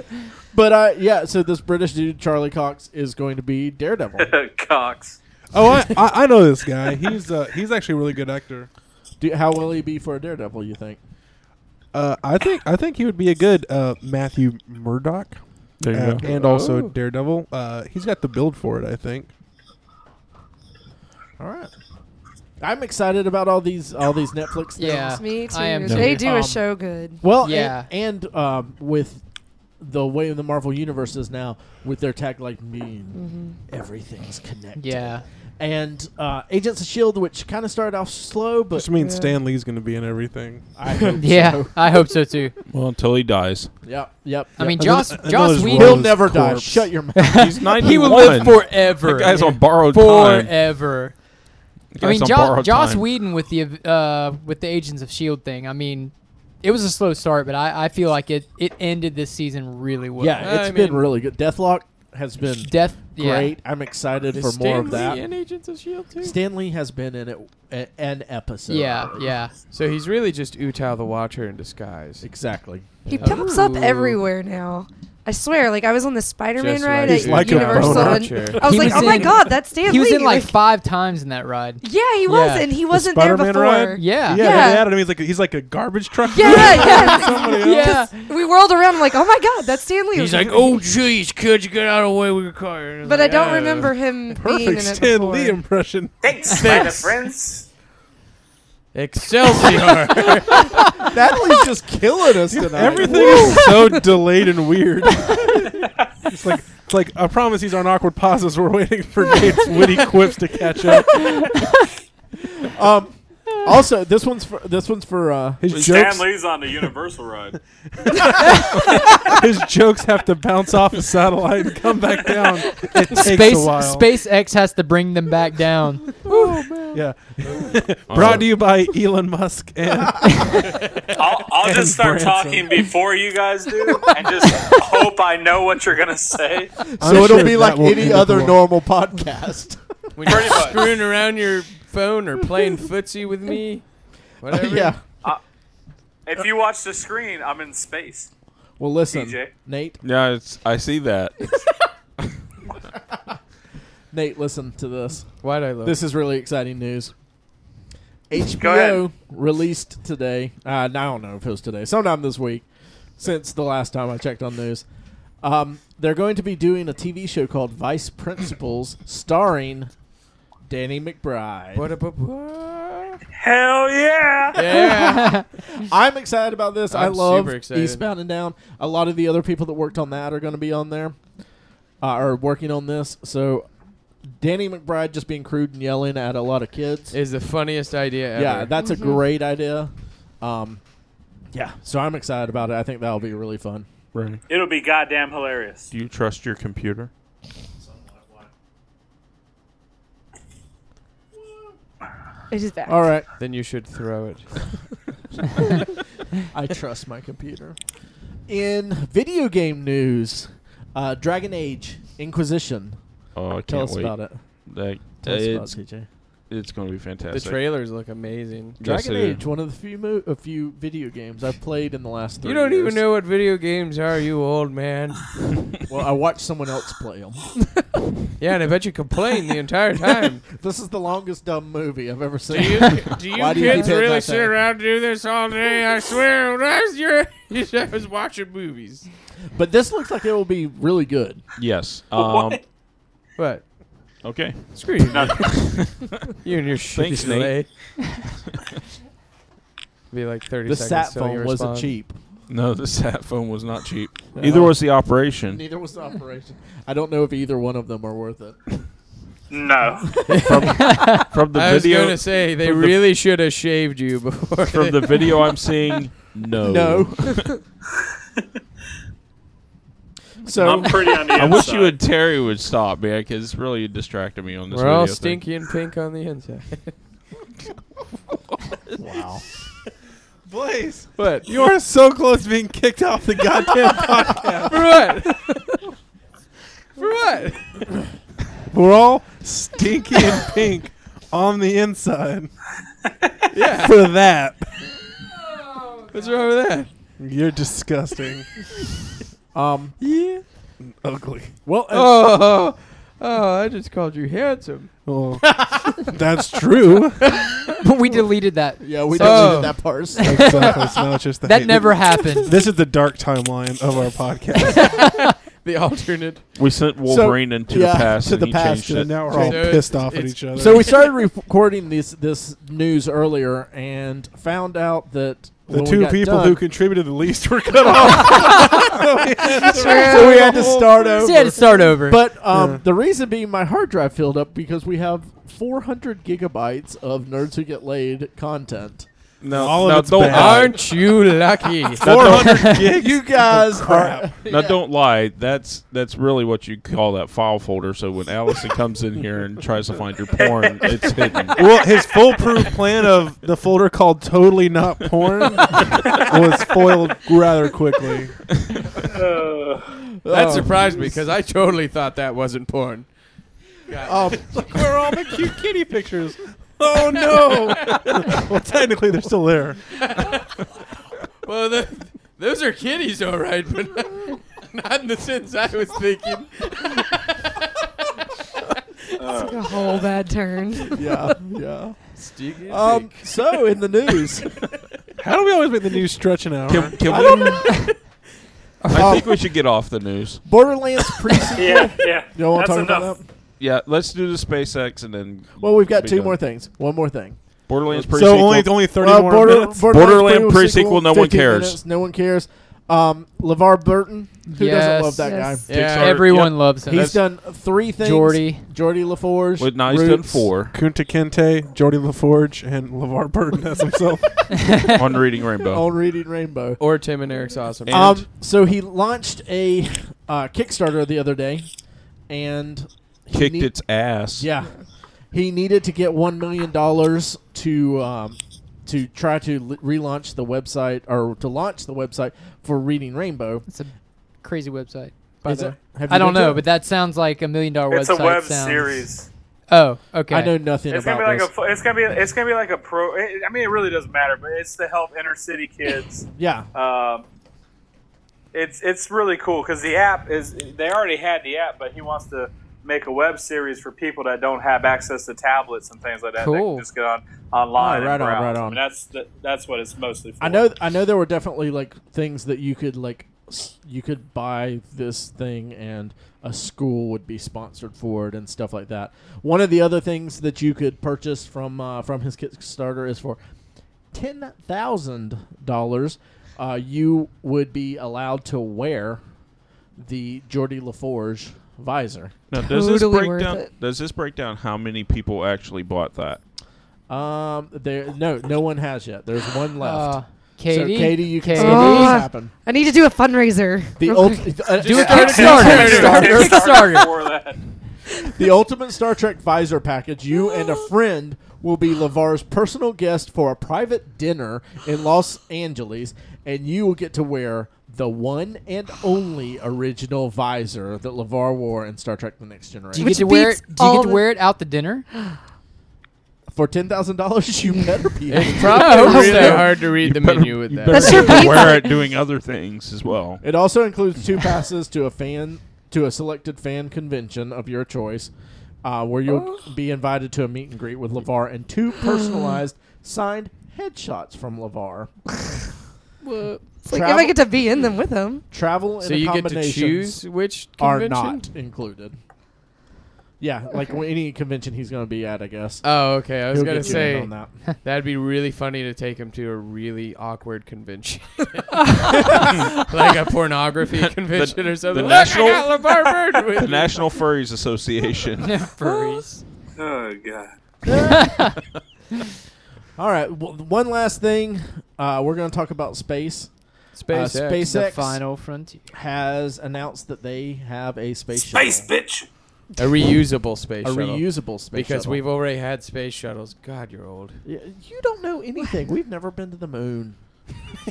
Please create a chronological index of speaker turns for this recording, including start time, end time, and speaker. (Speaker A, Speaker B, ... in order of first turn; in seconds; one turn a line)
Speaker A: 0.5-4.3
Speaker B: 4.2-5.2
Speaker C: 5.5-8.7
Speaker A: 9.2-11.0
Speaker C: 11.9-19.3
Speaker D: 15.8-16.2
Speaker E: 16.2-16.9
Speaker A: 21.4-21.7
Speaker A: 22.6-25.2
Speaker F: 24.8-26.2
Speaker G: 24.8-27.3
Speaker A: 26.0-26.7
Speaker A: 27.2-29.2
Speaker F: 27.4-27.9
Speaker A: 29.8-38.9
Speaker G: 33.1-33.6
Speaker F: 34.8-35.2
Speaker C: 38.7-40.7
Speaker G: 39.0-39.4
Speaker A: 40.8-42.1
Speaker F: 41.2-42.5
Speaker D: 42.7-43.7
Speaker A: 43.8-48.5
Speaker F: 44.6-46.2
Speaker C: 44.7-46.9
Speaker F: 47.1-51.3
Speaker D: 47.3-50.7
Speaker D: 51.9-53.1
Speaker F: 52.0-60.5
Speaker A: 60.2-65.2
Speaker E: 60.4-61.1
Speaker F: 62.6-63.6
Speaker E: 64.3-66.4
Speaker A: 66.2-69.3
Speaker F: 68.7-69.5
Speaker E: 69.7-72.3
Speaker A: 72.2-73.2
Speaker E: 73.0-73.7
Speaker F: 73.2-74.1
Speaker G: 73.2-80.6
Speaker E: 76.6-78.6
Speaker C: 77.0-79.3
Speaker F: 78.6-82.7
Speaker G: 81.8-84.9
Speaker C: 82.9-88.1
Speaker F: 84.0-84.8
Speaker G: 86.3-90.7
Speaker F: 86.4-88.2
Speaker E: 90.1-94.0
Speaker G: 93.0-95.6
Speaker C: 94.3-96.3
Speaker B: 96.2-97.7
Speaker E: 96.5-97.3
Speaker E: 98.9-101.1
Speaker A: 101.0-103.6
Speaker C: 102.5-111.6
Speaker G: 103.0-103.7
Speaker A: 112.6-115.6
Speaker C: 115.6-116.9
Speaker B: 115.7-117.6
Speaker C: 118.0-124.1
Speaker F: 123.1-126.2
Speaker A: 126.2-127.0
Speaker C: 126.9-130.7
Speaker D: 128.1-128.6
Speaker B: 131.2-136.8
Speaker C: 131.5-132.8
Speaker A: 136.9-139.8
Speaker C: 137.0-138.6
Speaker E: 140.2-145.0
Speaker B: 140.2-141.0
Speaker A: 144.5-145.0
Speaker B: 146.2-148.3
Speaker A: 148.8-150.0
Speaker B: 149.1-149.5
Speaker D: 150.0-151.6
Speaker A: 154.1-157.1
Speaker E: 155.4-156.0
Speaker A: 158.3-162.7
Speaker B: 158.5-159.0
Speaker A: 163.2-164.8
Speaker A: 165.4-169.9
Speaker A: 170.7-171.9
Speaker E: 171.7-173.2
Speaker B: 173.4-174.6
Speaker E: 174.5-175.4
Speaker A: 174.6-181.2
Speaker F: 174.9-175.4
Speaker E: 176.9-178.1
Speaker A: 182.0-183.7
Speaker A: 184.3-187.2
Speaker E: 187.1-188.7
Speaker A: 188.3-190.8
Speaker G: 188.8-189.2
Speaker A: 191.5-193.9
Speaker D: 194.1-194.4
Speaker B: 194.5-195.9
Speaker D: 195.9-197.1
Speaker G: 202.5-203.1
Speaker A: 202.8-203.3
Speaker E: 203.4-204.7
Speaker A: 206.5-207.8
Speaker A: 208.5-213.0
Speaker D: 213.3-215.9
Speaker A: 213.7-216.1
Speaker D: 216.5-217.6
Speaker E: 217.3-218.8
Speaker D: 218.8-219.4
Speaker A: 218.8-223.0
Speaker E: 222.4-225.5
Speaker A: 225.9-227.7
Speaker E: 228.4-230.4
Speaker A: 230.5-234.5
Speaker E: 232.5-239.1
Speaker A: 239.5-241.4
Speaker D: 241.6-242.6
Speaker B: 242.1-242.6
Speaker E: 243.3-243.7
Speaker D: 244.2-246.1
Speaker E: 244.7-248.0
Speaker B: 245.1-245.9
Speaker D: 246.9-248.2
Speaker E: 250.1-251.9
Speaker A: 250.7-252.2
Speaker D: 252.5-255.6
Speaker A: 254.3-258.7
Speaker B: 259.5-260.3
Speaker A: 260.1-260.4
Speaker E: 260.3-260.7
Speaker D: 260.4-263.0
Speaker F: 260.7-261.3
Speaker E: 261.5-265.5
Speaker D: 264.7-267.6
Speaker A: 266.6-267.4
Speaker A: 270.4-271.2
Speaker B: 270.6-272.0
Speaker D: 270.6-275.5
Speaker E: 274.7-276.9
Speaker A: 279.0-279.4
Speaker C: 280.4-285.5
Speaker E: 281.2-281.5
Speaker E: 284.6-285.6
Speaker E: 286.9-287.9
Speaker C: 288.7-292.5
Speaker E: 293.5-294.1
Speaker C: 293.6-294.8
Speaker E: 295.8-296.9
Speaker C: 297.2-298.5
Speaker A: 299.5-300.0
Speaker E: 300.0-300.4
Speaker C: 300.8-301.6
Speaker A: 301.6-302.2
Speaker E: 301.9-304.9
Speaker C: 305.0-307.2
Speaker A: 305.5-305.9
Speaker E: 307.2-307.7
Speaker F: 307.8-310.8
Speaker A: 308.8-310.9
Speaker E: 309.1-310.0
Speaker C: 310.2-315.0
Speaker F: 311.4-312.6
Speaker F: 314.7-315.3
Speaker E: 315.5-316.4
Speaker D: 316.5-319.2
Speaker A: 317.1-320.0
Speaker C: 318.9-321.0
Speaker E: 319.3-320.9
Speaker A: 320.5-326.6
Speaker C: 325.7-331.2
Speaker G: 329.6-330.6
Speaker A: 329.7-339.1
Speaker F: 331.1-332.3
Speaker C: 332.5-332.8
Speaker D: 339.4-340.9
Speaker C: 339.5-340.8
Speaker E: 340.2-342.2
Speaker D: 342.0-342.8
Speaker C: 342.0-344.3
Speaker F: 342.2-342.9
Speaker A: 342.7-344.8
Speaker D: 344.5-351.6
Speaker B: 350.4-352.7
Speaker C: 351.6-358.6
Speaker B: 359.1-359.9
Speaker A: 360.2-361.2
Speaker E: 360.3-365.4
Speaker A: 364.1-364.6
Speaker C: 364.4-370.0
Speaker E: 366.9-368.4
Speaker E: 369.9-370.5
Speaker E: 371.4-377.6
Speaker B: 379.2-380.0
Speaker G: 379.4-381.1
Speaker A: 380.9-384.5
Speaker E: 382.1-383.6
Speaker C: 385.2-387.3
Speaker D: 386.7-387.7
Speaker A: 387.0-387.9
Speaker F: 388.8-389.2
Speaker A: 388.9-389.4
Speaker D: 388.9-390.5
Speaker A: 390.4-393.2
Speaker B: 391.6-393.1
Speaker D: 393.6-396.4
Speaker A: 395.6-397.4
Speaker D: 397.7-398.8
Speaker C: 397.9-399.8
Speaker A: 398.9-410.5
Speaker D: 399.4-401.8
Speaker F: 404.5-407.2
Speaker G: 405.2-405.7
Speaker E: 405.7-406.5
Speaker D: 405.7-407.1
Speaker F: 408.0-408.6
Speaker D: 409.6-410.8
Speaker C: 410.7-414.7
Speaker F: 414.6-414.9
Speaker D: 414.9-415.9
Speaker A: 415.7-416.8
Speaker E: 416.8-418.2
Speaker D: 417.9-418.2
Speaker A: 417.9-421.7
Speaker A: 422.3-433.6
Speaker D: 423.3-424.5
Speaker F: 433.7-439.1
Speaker A: 435.4-436.7
Speaker B: 437.9-439.3
Speaker F: 439.7-440.6
Speaker A: 440.3-441.5
Speaker B: 440.9-447.2
Speaker A: 446.4-446.7
Speaker B: 448.5-460.7
Speaker F: 456.4-456.9
Speaker A: 457.7-458.8
Speaker A: 460.4-473.4
Speaker A: 474.1-479.2
Speaker A: 480.0-482.3
Speaker D: 482.5-486.4
Speaker G: 482.6-483.7
Speaker A: 487.1-492.5
Speaker F: 489.8-492.3
Speaker G: 491.6-494.8
Speaker A: 494.0-496.6
Speaker F: 494.8-497.3
Speaker E: 494.8-496.5
Speaker B: 494.9-497.6
Speaker A: 498.3-513.1
Speaker F: 512.9-515.0
Speaker G: 512.9-514.4
Speaker A: 516.5-519.6
Speaker E: 518.3-521.4
Speaker F: 518.6-519.7
Speaker G: 519.1-519.5
Speaker D: 519.3-523.4
Speaker G: 520.9-522.0
Speaker A: 523.4-528.3
Speaker A: 528.8-535.1
Speaker E: 536.2-536.6
Speaker A: 536.8-537.4
Speaker G: 536.9-538.5
Speaker A: 538.5-542.2
Speaker E: 539.0-541.5
Speaker A: 543.4-547.6
Speaker E: 545.8-551.7
Speaker E: 552.4-557.1
Speaker D: 554.2-555.8
Speaker D: 556.6-558.7
Speaker F: 558.4-559.4
Speaker E: 558.8-559.3
Speaker B: 559.8-560.5
Speaker A: 560.8-561.4
Speaker F: 561.0-561.5
Speaker A: 563.0-571.9
Speaker E: 566.9-567.7
Speaker F: 567.6-568.9
Speaker B: 571.5-572.3
Speaker E: 572.8-577.4
Speaker A: 573.8-575.2
Speaker A: 577.4-580.7